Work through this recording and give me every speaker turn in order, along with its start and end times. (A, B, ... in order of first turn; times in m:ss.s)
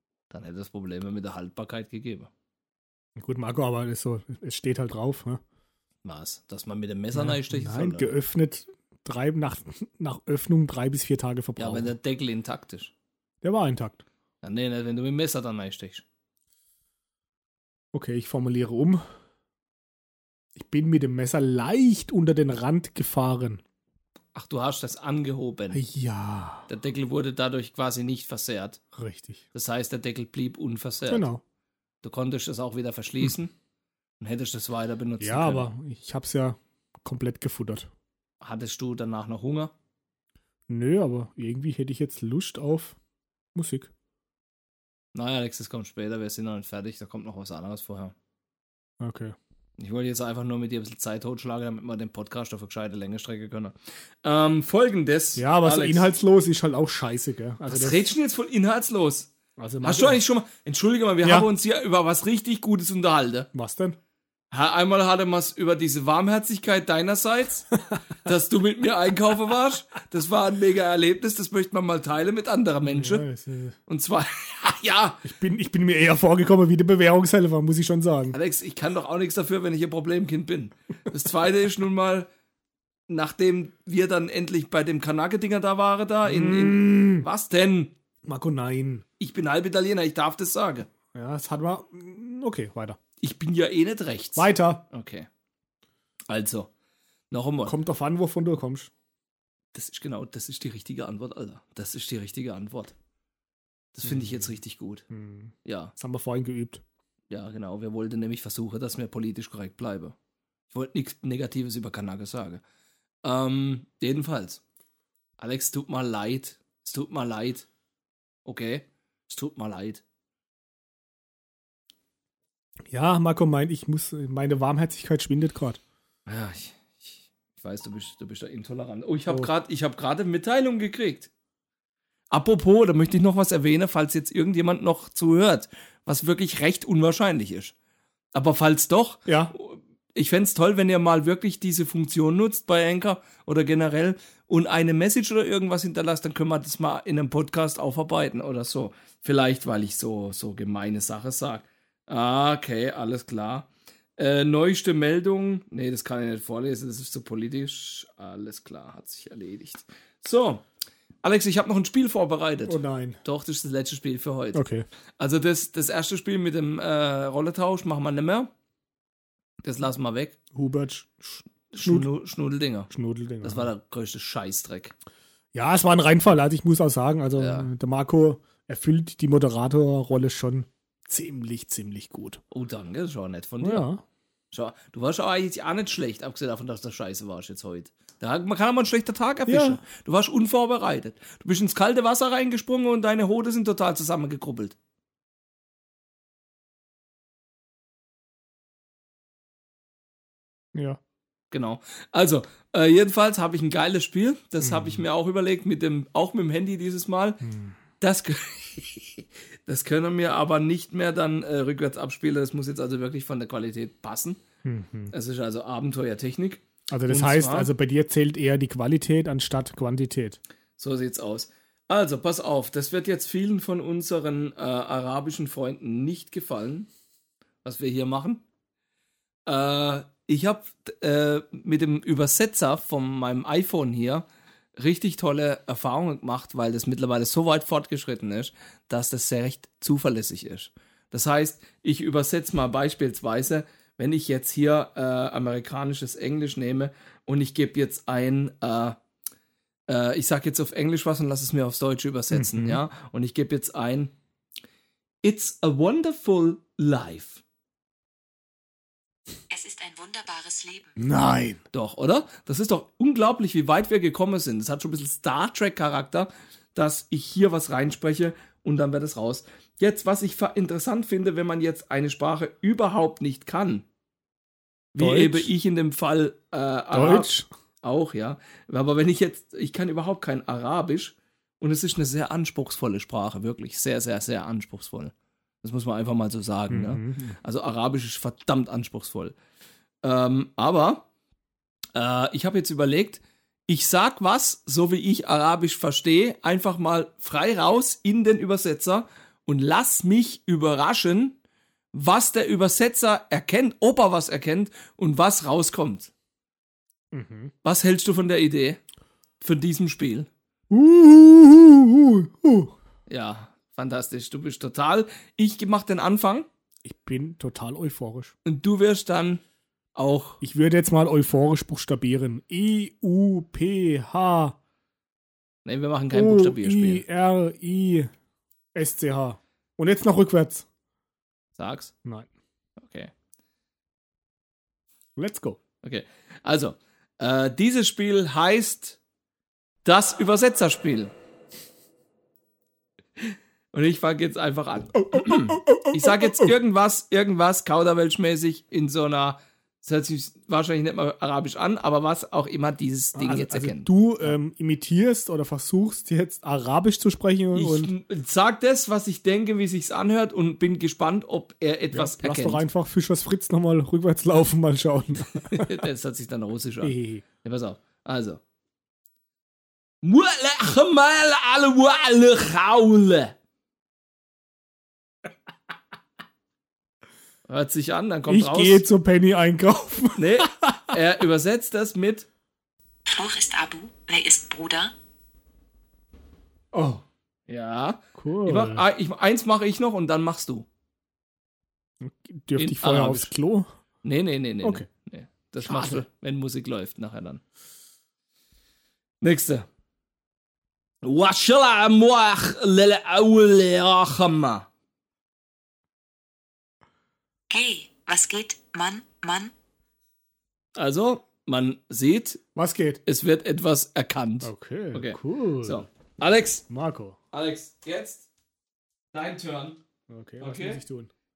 0:00.3-0:02.3 A
0:03.2-0:05.4 B
0:06.0-0:08.1 A
0:07.1-0:12.0 B
0:11.6-0:12.9 A
0:13.4-0:14.0 B
0:14.4-0:16.0 A
0:17.9-0:19.0 B
0:20.6-0:23.6 B
0:24.4-0:25.8 A
0:25.7-0:26.7 B
0:26.7-0:28.8 A
0:28.9-0:29.4 B
0:29.5-0:31.3 A
0:31.1-0:31.4 B
0:32.0-0:33.5 A
0:34.2-0:35.7 A
0:35.2-0:37.9 B
0:38.4-0:39.7 A
0:40.7-0:43.0 B
0:43.6-0:43.9 B
0:45.2-0:48.1 A
0:49.0-0:49.4 B
0:49.8-0:56.1 A
0:55.4-0:58.0 B
0:57.7-0:59.3 A
0:59.6-1:00.2 B
0:59.8-1:03.5 A
1:01.2-1:01.5 B
1:03.5-1:04.0 B
1:04.5-1:07.7 A
1:08.2-1:13.2 A
1:12.9-1:13.8 B
1:13.9-1:15.2 A
1:15.2-1:18.4 B
1:18.3-1:22.3 A
1:23.1-1:27.9 A
1:26.2-1:27.3 B
1:28.2-1:29.1 B
1:29.2-1:30.9 A
1:31.1-1:33.0 B
1:33.2-1:35.3 A
1:34.4-1:34.9 B
1:36.3-1:36.7 A
1:37.3-1:37.8 A
1:37.6-1:38.9 B
1:39.7-1:42.9 A
1:44.0-1:45.0 A
1:44.0-1:44.5 B
1:45.1-1:46.8 B
1:45.6-1:45.9 A
1:47.3-1:50.2 A
1:50.7-1:52.6 A
1:53.2-1:54.6 A
1:55.4-1:57.7 A
1:58.5-2:00.0 A
2:02.9-2:05.8 B
2:06.3-2:11.3 A
2:12.3-2:17.7 A
2:18.3-2:40.6 A
2:19.3-2:19.5 B
2:41.2-2:44.6 A
2:42.7-2:43.2 B
2:44.5-2:44.9 B
2:45.2-2:48.5 A
2:49.6-2:50.4 A
2:50.5-2:52.1 B
2:51.7-2:52.9 A
2:52.9-2:53.7 B
2:53.4-2:54.9 A
2:55.5-3:02.4 B
2:57.4-2:57.7 A
3:02.5-3:03.9 A
3:03.6-3:04.0 B
3:04.5-3:14.8 A
3:09.5-3:09.8 B
3:20.8-3:21.0 B
3:21.5-3:27.4 A
3:24.6-3:25.0 B
3:27.4-3:27.8 B
3:28.0-3:34.4 A
3:34.6-3:35.1 B
3:35.1-3:37.7 A
3:36.9-3:40.4 B
3:40.8-3:46.9 A
3:47.6-3:48.4 A
3:49.5-4:09.0 A
4:09.9-4:14.1 A
4:12.3-4:12.8 B
4:15.2-4:17.4 A
4:19.5-4:21.0 C
4:21.0-4:21.6 B
4:21.7-4:33.8 A
4:35.0-4:49.4 A
4:35.0-4:35.5 B
4:36.9-4:37.5 B
4:46.7-4:47.4 B
4:50.0-4:51.0 A
4:52.0-5:01.4 A
5:01.9-5:06.1 A
5:07.1-5:07.5 B
5:07.6-5:08.8 A
5:09.4-5:10.3 A
5:10.7-5:12.7 B
5:13.1-5:16.5 A
5:16.8-5:18.3 B
5:18.4-5:19.4 A
5:20.0-5:20.4 A
5:20.4-5:24.6 B
5:25.6-5:27.0 A
5:26.1-5:28.1 B
5:28.8-5:30.7 B
5:31.6-5:31.9 A
5:32.8-5:33.1 A
5:35.2-5:35.6 B
5:35.8-5:39.0 A
5:39.8-5:41.1 A
5:43.2-5:54.3 A
5:45.0-5:46.5 B
5:53.2-5:57.9 B
5:57.5-6:02.6 A
6:01.9-6:05.7 B
6:05.3-6:08.4 A
6:06.8-6:07.2 B
6:10.0-6:13.3 A
6:17.5-6:18.8 A
6:18.3-6:21.0 B
6:20.2-6:22.3 A
6:23.1-6:25.0 C
6:26.7-6:27.0 B
6:27.5-6:30.7 A
6:28.2-6:28.9 B
6:32.0-6:33.7 B
6:32.6-6:33.3 A
6:34.0-6:37.4 A
6:34.6-6:34.9 B
6:35.6-6:36.0 B
6:39.2-6:39.7 A
6:41.0-6:44.7 A
6:47.5-6:49.5 C
6:50.8-6:52.4 A
6:52.6-6:53.0 B
6:53.1-6:56.6 A
6:54.4-6:55.9 B
6:56.7-6:57.2 B
6:57.3-6:58.3 A
6:59.1-6:59.8 A
7:00.1-7:01.1 B
7:00.4-7:00.8 A